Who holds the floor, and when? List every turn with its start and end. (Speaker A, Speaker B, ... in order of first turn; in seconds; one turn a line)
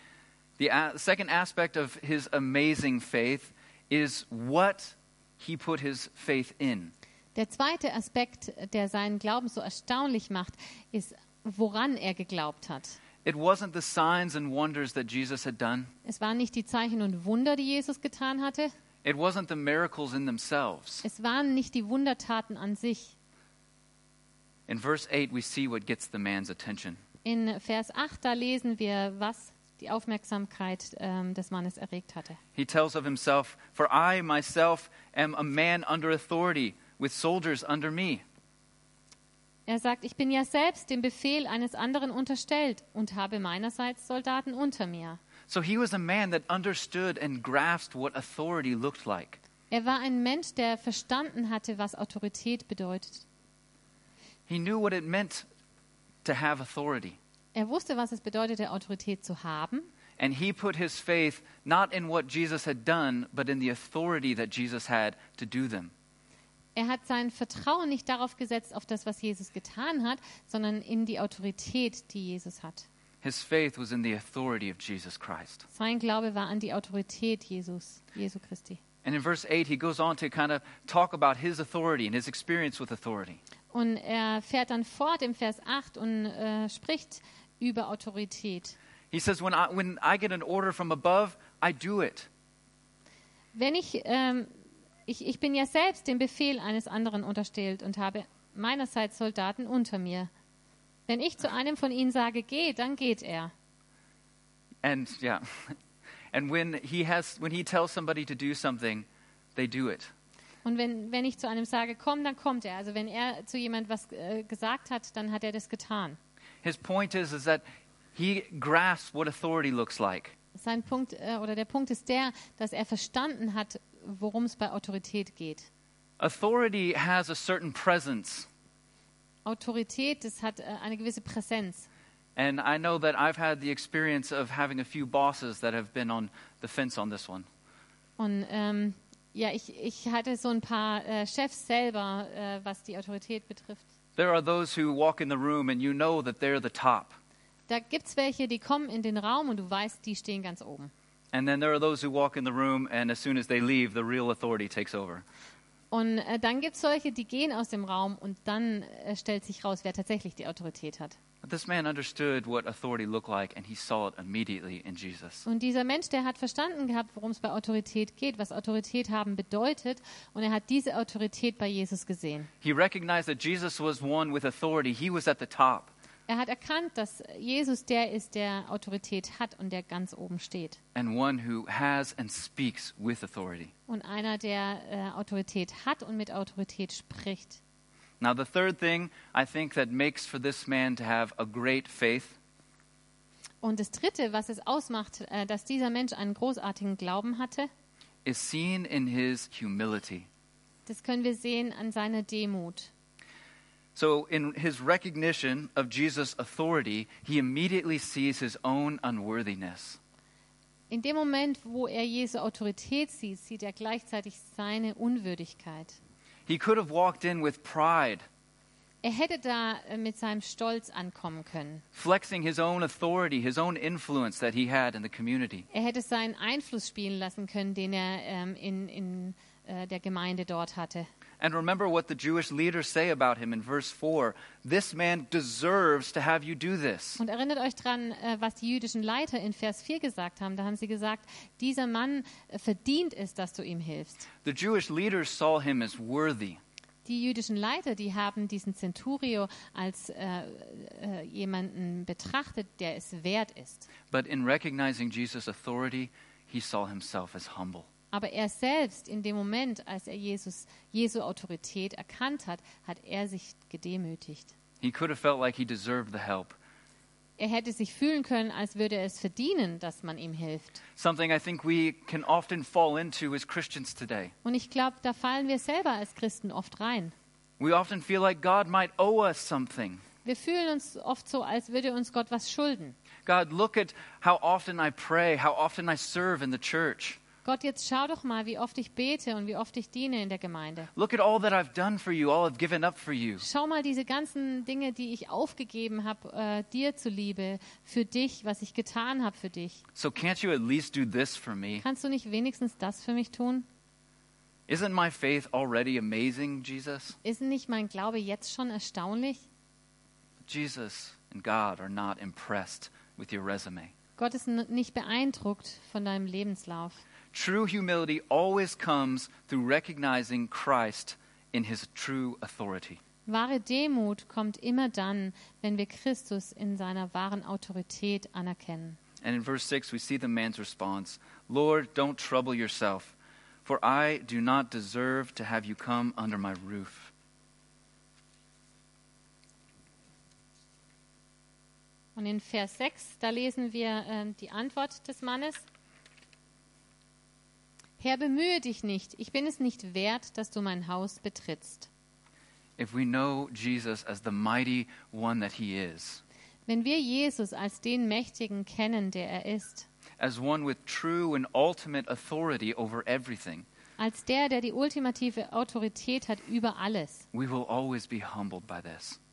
Speaker A: 0.6-6.9
Speaker B: 7.3-13.0
Speaker A: 13.2-15.9
Speaker B: 16.1-18.7
Speaker A: 19.0-21.1
Speaker B: 21.0-23.1
Speaker A: 24.7-27.0
Speaker B: 27.2-32.4
Speaker A: 32.5-38.2
Speaker B: 39.7-45.2
Speaker A: 45.5-49.4
Speaker B: 49.7-53.2
Speaker A: 54.5-55.5
Speaker A: 56.2-57.2
Speaker B: 57.5-59.9
Speaker A: 60.2-65.9
Speaker B: 66.8-72.9
Speaker A: 73.2-75.7
Speaker B: 75.7-78.8
Speaker A: 79.0-83.4
Speaker B: 83.7-88.8
Speaker A: 89.1-92.3
Speaker B: 93.5-94.5
Speaker B: 95.1-100.3
Speaker B: 101.1-103.5
Speaker A: 104.8-105.8
Speaker A: 106.3-110.1
Speaker B: 110.7-116.2
Speaker A: 116.6-117.6
Speaker A: 118.2-120.3
Speaker B: 120.6-125.7
Speaker A: 126.2-128.5
Speaker B: 129.4-131.9
Speaker A: 132.4-137.5
Speaker B: 138.2-143.9
Speaker A: 144.2-147.2
Speaker B: 147.7-150.9
Speaker A: 151.3-155.2
Speaker B: 155.9-161.2
Speaker A: 161.4-165.4
Speaker B: 165.4-172.5
Speaker A: 172.6-175.9
Speaker B: 176.3-180.8
Speaker A: 180.9-183.7
Speaker B: 183.9-187.6
Speaker A: 188.2-192.4
Speaker B: 193.6-197.7
Speaker A: 198.2-200.3
Speaker B: 200.9-202.9
Speaker A: 203.9-210.0
Speaker B: 210.9-216.0
Speaker A: 216.5-218.2
Speaker B: 219.0-221.8
Speaker A: 221.9-225.7
Speaker B: 225.7-231.1
Speaker A: 231.4-237.2
Speaker B: 237.2-244.3
Speaker A: 244.4-246.6
Speaker B: 247.1-253.9
Speaker A: 254.1-257.9
Speaker B: 258.1-264.5
Speaker A: 264.8-266.6
Speaker B: 267.4-270.8
Speaker A: 271.0-274.3
Speaker B: 274.4-277.1
Speaker A: 277.6-280.0
Speaker B: 280.2-282.9
Speaker A: 283.3-287.2
Speaker B: 287.4-290.9
Speaker A: 290.9-293.5
Speaker B: 293.4-299.8
Speaker A: 299.9-301.8
Speaker B: 301.8-303.7
Speaker A: 304.7-307.2
Speaker B: 307.2-309.4
Speaker A: 310.4-313.9
Speaker B: 314.2-317.0
Speaker A: 317.3-323.0
Speaker B: 323.3-329.0
Speaker A: 329.2-337.1
Speaker B: 342.2-345.6
Speaker B: 348.0-351.9
Speaker A: 352.8-356.2
Speaker B: 356.7-359.9
Speaker A: 360.2-363.7
Speaker B: 364.0-367.3
Speaker A: 367.3-369.2